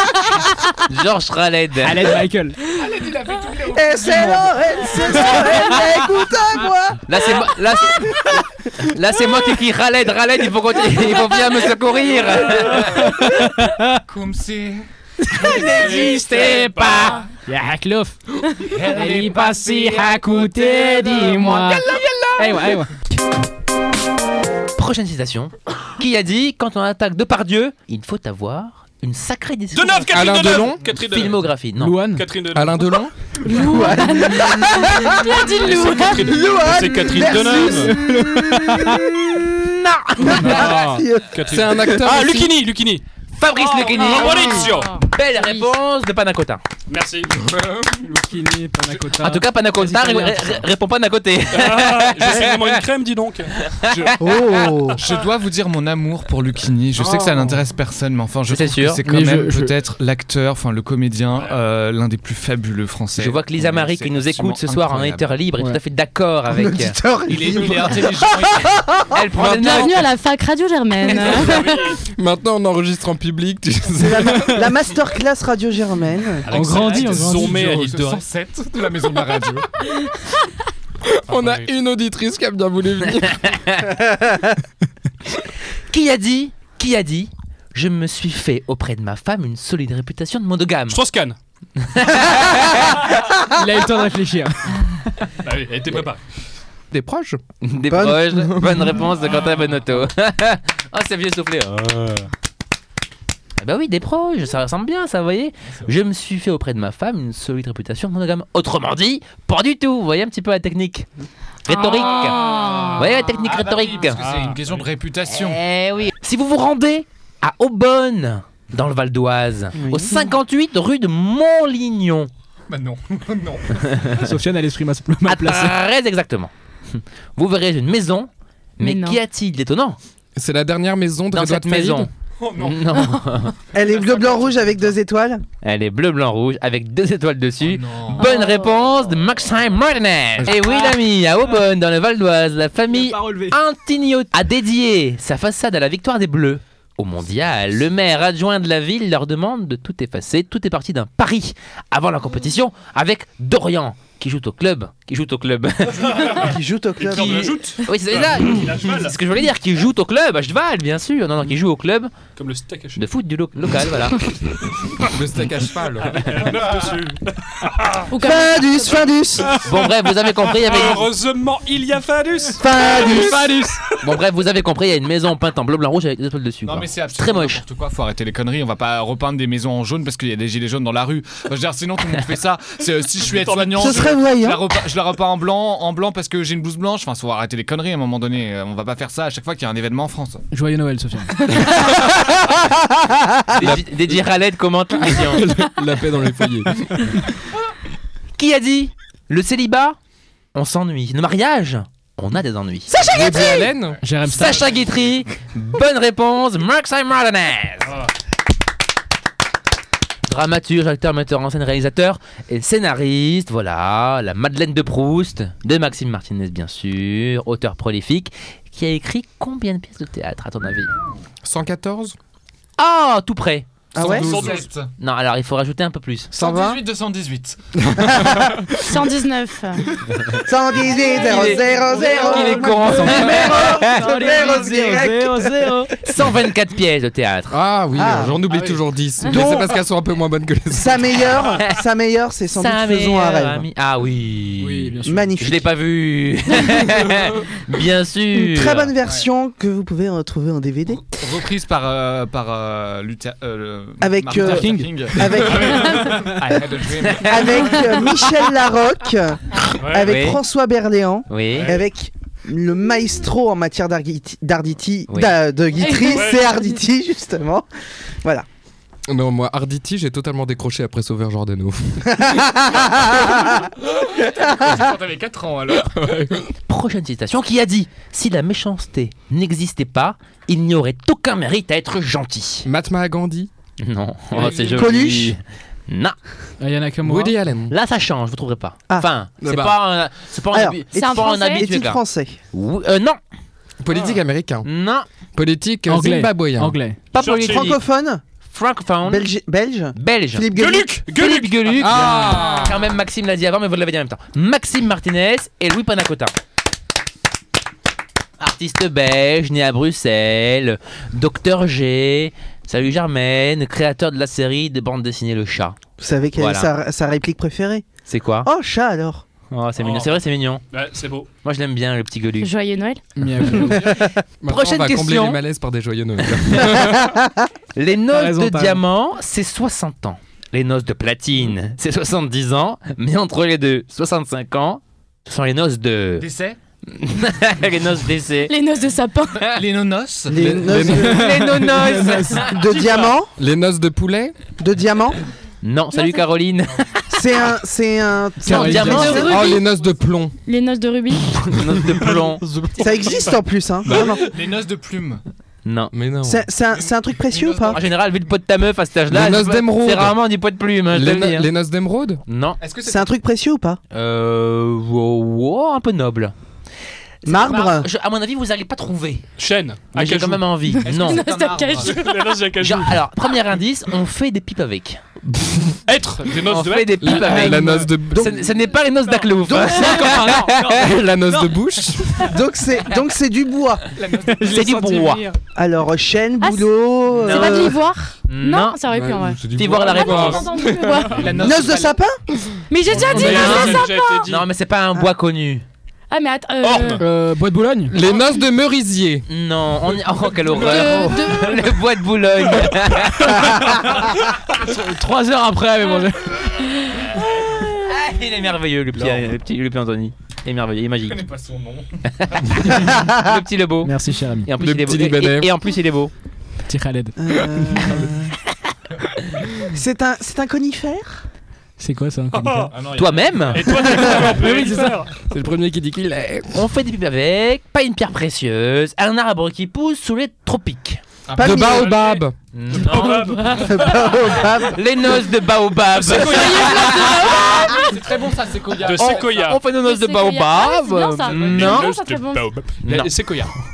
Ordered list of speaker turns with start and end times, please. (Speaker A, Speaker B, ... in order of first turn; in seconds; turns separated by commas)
Speaker A: 0.9-2.1, Speaker B: 1.8-2.6, Speaker C: 2.7-5.8, Speaker D: 3.7-7.0, Speaker A: 7.1-13.1, Speaker B: 12.8-14.0, Speaker C: 14.1-14.9, Speaker B: 15.2-18.2, Speaker A: 15.5-17.1, Speaker E: 15.5-17.2, Speaker C: 18.6-22.6, Speaker B: 18.7-22.9, Speaker A: 24.8-32.0, Speaker E: 29.7-31.5, Speaker F: 30.1-30.8, Speaker B: 31.8-32.2, Speaker E: 32.1-32.9, Speaker F: 32.5-33.1, Speaker G: 33.4-36.4, Speaker D: 33.5-35.5, Speaker E: 35.6-38.0, Speaker D: 36.0-39.6, Speaker B: 37.4-39.1, Speaker A: 39.8-40.6, Speaker D: 40.2-42.0, Speaker E: 40.3-43.0, Speaker F: 41.5-42.6, Speaker A: 43.4-46.6, Speaker E: 43.6-45.0, Speaker G: 44.0-45.7, Speaker E: 46.9-47.4, Speaker F: 47.5-47.9, Speaker B: 47.9-50.7, Speaker A: 49.2-52.8, Speaker E: 51.5-53.7, Speaker A: 53.7-54.7, Speaker C: 53.9-54.2, Speaker D: 54.2-55.1, Speaker C: 54.9-65.4, Speaker B: 57.0-57.5, Speaker A: 58.5-59.0, Speaker B: 59.0-59.8, Speaker A: 63.2-67.0, Speaker D: 66.5-69.2, Speaker C: 67.3-68.8, Speaker A: 69.1-70.1, Speaker G: 69.4-72.0, Speaker E: 71.0-72.0, Speaker F: 72.1-74.7, Speaker D: 74.0-76.5, Speaker B: 76.4-77.7, Speaker E: 76.5-78.2, Speaker C: 76.5-79.7, Speaker F: 81.0-83.6, Speaker D: 83.9-84.5, Speaker A: 85.9-91.0, Speaker E: 90.9-91.4, Speaker A: 91.8-93.0, Speaker B: 93.5-95.3, Speaker E: 95.4-96.2, Speaker F: 96.9-97.4, Speaker A: 97.6-102.3, Speaker D: 97.9-99.0, Speaker A: 103.6-111.1, Speaker A: 111.6-112.4, Speaker G: 111.7-113.2, Speaker C: 112.2-115.6, Speaker A: 112.9-114.2, Speaker E: 114.1-114.9, Speaker A: 115.3-122.3, Speaker D: 119.8-120.3, Speaker C: 122.7-124.2, Speaker B: 124.1-125.8, Speaker A: 125.2-130.0, Speaker G: 128.8-129.2, Speaker F: 130.4-132.1, Speaker A: 131.3-133.6, Speaker C: 132.4-132.9, Speaker D: 133.7-135.4, Speaker C: 134.0-134.8, Speaker A: 135.6-156.6, Speaker C: 137.6-138.3, Speaker G: 138.2-138.7, Speaker B: 140.5-140.9, Speaker B: 142.9-143.6, Speaker D: 156.2-157.6, Speaker E: 157.0-159.1, Speaker A: 157.1-162.1, Speaker C: 157.2-157.6, Speaker E: 162.4-163.0, Speaker A: 163.0-164.2, Speaker F: 165.0-166.4, Speaker E: 166.0-168.1, Speaker G: 168.1-169.1, Speaker D: 168.2-169.5, Speaker A: 169.6-171.1, Speaker E: 170.2-173.3, Speaker D: 172.6-173.5, Speaker B: 172.6-173.8, Speaker A: 174.0-177.6, Speaker C: 176.6-190.4, Speaker E: 183.2-184.2, Speaker D: 183.8-184.7, Speaker B: 190.5-191.5, Speaker D: 191.5-193.7, Speaker A: 193.5-195.5, Speaker F: 193.6-194.2, Speaker F: 195.0-197.2, Speaker A: 198.4-200.0, Speaker A: 200.5-203.4, Speaker F: 202.9-204.0, Speaker B: 204.0-204.8, Speaker A: 204.3-207.9, Speaker E: 204.4-204.9, Speaker A: 210.3-220.9, Speaker F: 221.4-222.2, Speaker A: 222.8-223.7, Speaker D: 223.9-224.4, Speaker F: 223.9-224.6, Speaker C: 224.1-224.9, Speaker E: 224.2-224.6, Speaker A: 225.0-226.3, Speaker C: 226.3-227.6, Speaker F: 226.3-226.8, Speaker F: 227.8-228.7, Speaker D: 228.2-228.6, Speaker G: 228.8-229.9, Speaker D: 230.4-235.9, Speaker G: 230.8-231.8, Speaker A: 231.1-234.2, Speaker B: 232.1-235.9, Speaker A: 236.0-237.6, Speaker F: 237.5-241.1, Speaker D: 237.9-238.4, Speaker D: 239.2-239.8, Speaker D: 240.7-243.7, Speaker A: 242.5-248.9, Speaker B: 244.6-245.4, Speaker D: 245.1-245.6, Speaker D: 248.3-251.1, Speaker C: 250.9-258.1, Speaker D: 254.0-256.6, Speaker B: 254.3-255.4, Speaker E: 255.6-255.8, Speaker A: 257.0-257.8, Speaker D: 257.2-267.6, Speaker E: 259.8-260.2, Speaker A: 259.9-260.4, Speaker A: 261.3-261.8, Speaker E: 261.5-261.9, Speaker A: 265.1-265.4, Speaker G: 265.8-266.8, Speaker E: 266.0-266.5, Speaker F: 269.1-272.4, Speaker D: 272.1-273.7, Speaker C: 274.2-275.9, Speaker D: 274.4-274.9, Speaker F: 275.8-276.5, Speaker A: 276.6-282.6, Speaker F: 282.6-283.5, Speaker A: 283.8-286.2, Speaker C: 284.3-284.9, Speaker D: 284.4-285.4, Speaker B: 286.6-287.4, Speaker F: 287.0-287.7, Speaker A: 287.7-292.0, Speaker F: 289.4-289.8, Speaker D: 290.5-292.4, Speaker G: 290.9-291.6, Speaker A: 292.5-293.2, Speaker F: 293.8-294.7, Speaker E: 293.9-294.1, Speaker A: 294.6-295.1, Speaker F: 295.3-296.8, Speaker B: 295.9-297.0, Speaker A: 297.1-297.8, Speaker E: 297.1-297.8, Speaker D: 297.4-298.2, Speaker A: 298.5-299.3, Speaker D: 299.0-301.0, Speaker A: 299.9-300.5, Speaker E: 300.5-302.5, Speaker A: 301.1-306.4, Speaker F: 301.8-302.8, Speaker A: 308.4-315.8, Speaker D: 316.0-317.9, Speaker A: 316.4-316.7, Speaker A: 318.1-318.5, Speaker D: 318.4-319.2, Speaker A: 319.5-320.6, Speaker E: 319.8-321.3, Speaker A: 321.4-322.5, Speaker G: 322.4-323.1, Speaker B: 323.2-324.0, Speaker F: 323.4-323.8, Speaker D: 323.5-324.0, Speaker F: 324.4-327.1, Speaker A: 324.5-325.4, Speaker A: 326.2-326.9, Speaker D: 326.8-327.4, Speaker A: 327.8-336.3, Speaker B: 328.1-328.8, Speaker C: 336.2-336.6, Speaker A: 336.9-338.5, Speaker G: 338.5-339.4, Speaker C: 339.4-340.6, Speaker D: 340.3-341.4, Speaker F: 340.3-341.3, Speaker B: 340.9-342.6, Speaker A: 340.9-342.6, Speaker D: 342.3-343.3, Speaker C: 342.5-343.2, Speaker F: 343.4-344.4, Speaker D: 344.6-345.2, Speaker A: 345.6-347.1, Speaker G: 345.9-346.2, Speaker D: 347.1-349.4, Speaker B: 348.4-349.3, Speaker A: 348.4-349.5, Speaker G: 348.9-349.6, Speaker F: 349.2-350.3, Speaker G: 350.4-351.4, Speaker A: 351.3-352.4, Speaker B: 352.0-353.3, Speaker D: 352.8-354.4, Speaker F: 353.9-354.2, Speaker C: 353.9-355.2, Speaker A: 355.6-355.9, Speaker F: 355.9-356.5, Speaker D: 356.2-357.8, Speaker C: 356.6-357.9, Speaker A: 357.7-361.5, Speaker F: 359.1-360.2, Speaker F: 360.9-362.2, Speaker A: 362.3-362.6, Speaker C: 362.6-363.1, Speaker D: 362.9-363.8, Speaker A: 363.9-366.3, Speaker A: 367.2-369.3, Speaker D: 367.2-367.9, Speaker E: 369.4-370.5, Speaker A: 369.9-371.3, Speaker G: 370.7-372.2, Speaker C: 370.8-372.0, Speaker E: 371.8-373.0, Speaker A: 372.6-375.0, Speaker E: 375.9-377.6, Speaker A: 376.4-381.1, Speaker F: 377.0-378.5, Speaker D: 379.4-380.4, Speaker B: 379.6-381.6, Speaker F: 380.7-382.2, Speaker D: 382.2-383.9, Speaker C: 383.9-385.2, Speaker A: 384.4-385.2, Speaker B: 384.6-385.3, Speaker D: 385.6-387.8, Speaker G: 386.4-386.7, Speaker A: 387.2-388.8, Speaker G: 387.2-391.4, Speaker F: 388.9-391.3, Speaker A: 389.5-390.5, Speaker C: 391.1-392.0, Speaker D: 391.4-392.2, Speaker G: 392.7-394.3, Speaker E: 392.9-394.4, Speaker C: 393.0-393.6, Speaker A: 393.1-395.6, Speaker G: 396.1-397.1, Speaker E: 396.6-397.0, Speaker B: 397.0-398.0, Speaker F: 397.9-399.3, Speaker A: 399.3-403.7, Speaker G: 400.4-401.8, Speaker D: 400.7-401.2, Speaker B: 404.5-406.5, Speaker G: 405.9-407.9, Speaker A: 407.6-411.3, Speaker C: 408.9-409.3, Speaker C: 411.1-412.6, Speaker A: 412.2-416.1, Speaker B: 413.8-414.5, Speaker F: 414.6-415.5, Speaker B: 416.7-417.1, Speaker D: 417.2-418.4, Speaker F: 417.6-418.1, Speaker D: 419.6-421.2, Speaker B: 421.8-422.9, Speaker E: 422.3-422.7, Speaker C: 422.7-424.9, Speaker A: 422.9-424.1, Speaker E: 423.5-425.1, Speaker F: 424.0-426.6, Speaker A: 426.5-431.0, Speaker C: 431.3-432.2, Speaker D: 431.4-432.0, Speaker F: 431.4-432.4, Speaker E: 432.2-434.5, Speaker A: 432.5-433.6, Speaker G: 432.9-433.8, Speaker D: 433.5-434.9, Speaker A: 434.6-437.9, Speaker C: 436.0-439.5, Speaker G: 436.1-437.9, Speaker E: 436.2-437.1, Speaker E: 438.8-439.6, Speaker A: 438.9-441.9, Speaker G: 439.6-442.5, Speaker E: 441.3-443.6, Speaker A: 442.8-443.1